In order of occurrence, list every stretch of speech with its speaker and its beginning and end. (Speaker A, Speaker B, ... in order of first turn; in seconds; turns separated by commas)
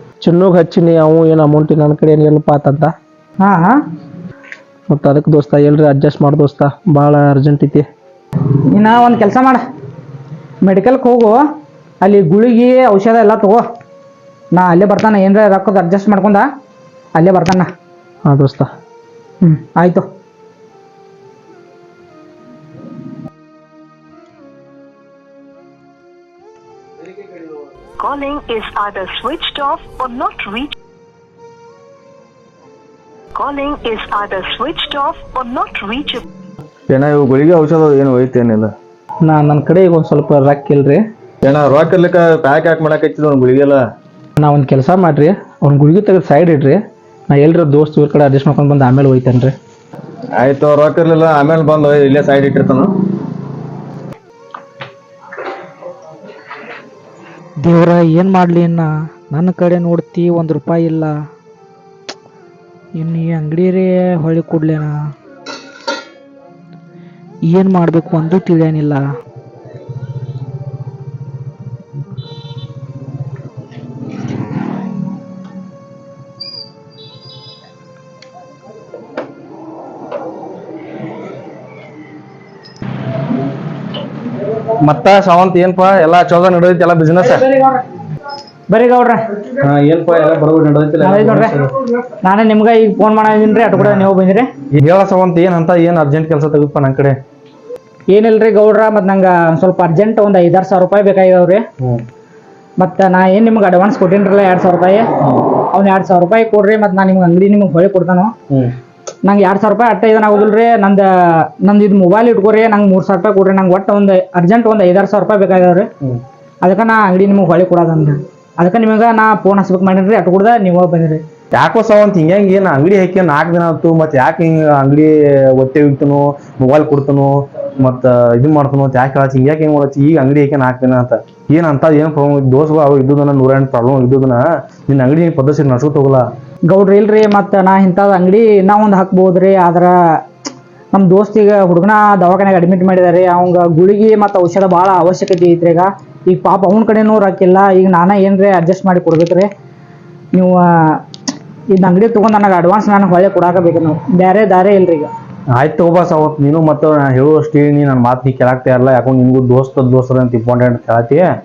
Speaker A: 0.2-2.9, Speaker B: 3.4-3.8, Speaker A: 4.9-7.8, Speaker B: 8.7-9.6, Speaker B: 10.6-11.4, Speaker B: 12.0-13.6, Speaker B: 14.5-16.5, Speaker B: 17.1-17.7, Speaker A: 18.2-18.7, Speaker B: 19.4-20.0, Speaker C: 28.0-30.7, Speaker C: 33.3-36.2, Speaker D: 36.9-38.7, Speaker A: 39.2-41.0, Speaker D: 41.4-43.8, Speaker A: 44.4-46.8, Speaker A: 47.3-49.5, Speaker D: 50.4-52.9, Speaker E: 57.6-61.2, Speaker E: 63.0-65.0, Speaker E: 67.5-69.0, Speaker D: 84.8-87.8, Speaker B: 88.7-89.2, Speaker D: 89.6-91.7, Speaker B: 91.0-91.5, Speaker B: 92.2-94.5, Speaker D: 93.8-94.1, Speaker D: 94.7-97.2, Speaker B: 98.1-101.6, Speaker B: 102.8-105.0, Speaker B: 105.7-108.3, Speaker B: 109.2-111.0, Speaker B: 111.6-115.9, Speaker B: 116.6-121.2, Speaker D: 121.5-136.3, Speaker B: 136.7-139.9, Speaker B: 140.9-149.5, Speaker B: 150.3-151.0, Speaker B: 151.7-155.1, Speaker D: 155.5-161.3